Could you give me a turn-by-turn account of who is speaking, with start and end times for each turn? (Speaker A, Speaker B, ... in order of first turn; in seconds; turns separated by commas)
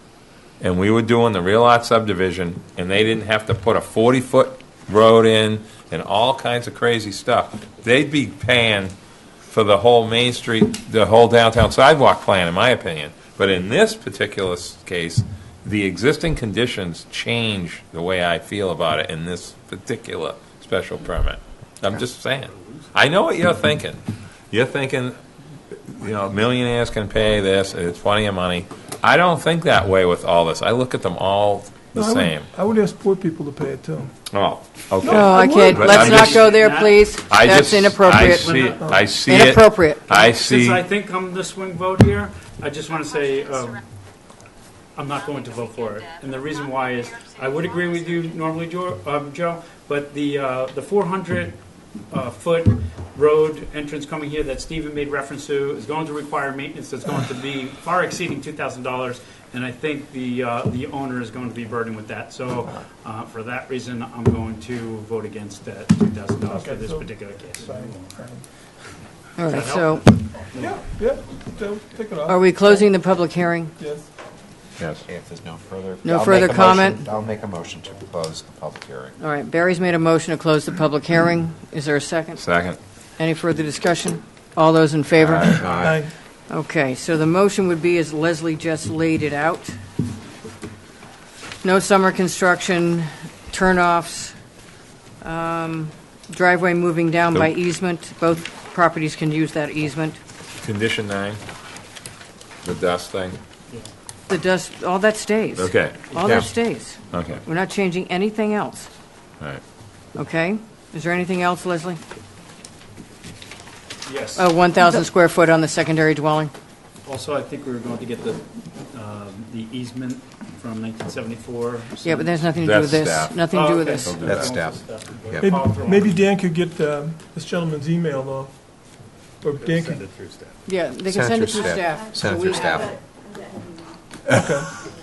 Speaker A: 0.6-8.9, Speaker A: 9.4-25.2, Speaker A: 25.7-32.5, Speaker B: 31.9-34.1, Speaker A: 34.3-36.5, Speaker B: 35.0-35.8, Speaker C: 35.1-40.3, Speaker D: 35.6-37.1, Speaker A: 37.3-40.8, Speaker D: 38.1-38.9, Speaker B: 38.8-39.0, Speaker D: 40.2-43.8, Speaker D: 44.9-51.6, Speaker D: 52.1-68.2, Speaker B: 66.5-68.4, Speaker C: 69.4-70.1, Speaker D: 69.5-71.0, Speaker B: 70.6-72.8, Speaker C: 72.3-73.7, Speaker B: 73.8-74.1, Speaker A: 74.8-75.0, Speaker E: 75.1-79.1, Speaker C: 76.0-77.0, Speaker C: 79.2-82.4, Speaker A: 82.4-82.8, Speaker C: 83.2-85.7, Speaker A: 85.2-85.6, Speaker E: 85.6-86.0, Speaker B: 85.8-86.1, Speaker C: 86.5-89.7, Speaker C: 91.6-94.3, Speaker C: 95.2-100.2, Speaker A: 100.6-101.4, Speaker A: 102.6-103.4, Speaker C: 104.3-108.9, Speaker A: 105.6-106.0, Speaker E: 106.2-106.5, Speaker A: 107.1-107.4, Speaker C: 110.2-112.0, Speaker D: 114.0-114.5, Speaker C: 114.3-116.5, Speaker D: 117.0-122.4, Speaker C: 122.0-124.4, Speaker A: 122.6-123.3, Speaker D: 123.4-126.2, Speaker E: 124.0-125.6, Speaker B: 125.4-128.5, Speaker B: 129.4-130.0, Speaker D: 129.6-130.5, Speaker C: 130.7-132.8, Speaker E: 131.1-133.0, Speaker B: 134.4-134.7